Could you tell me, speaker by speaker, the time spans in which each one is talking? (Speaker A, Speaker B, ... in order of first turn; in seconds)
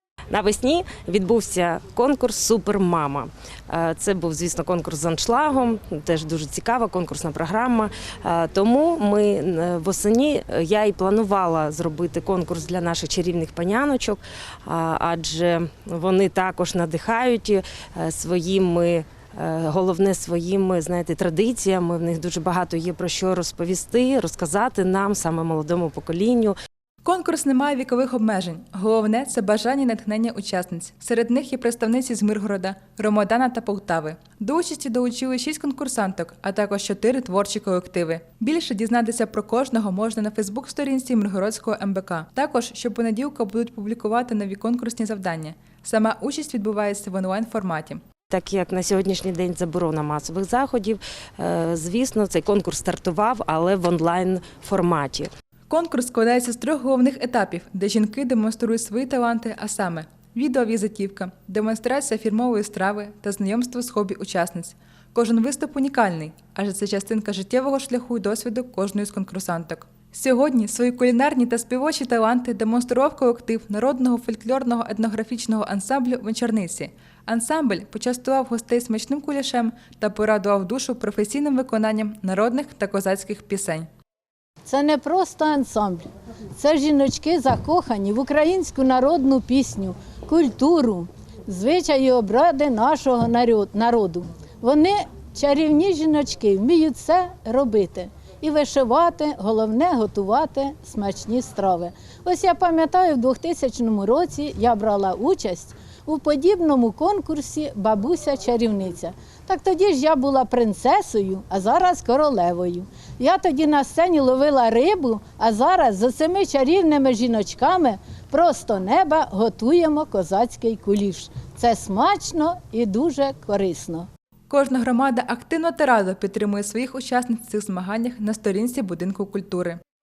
Speaker A: 0.3-26.6, 48.3-55.3
Speaker B: 27.1-48.0, 55.7-83.9, 124.5-129.8
Speaker C: 84.7-124.1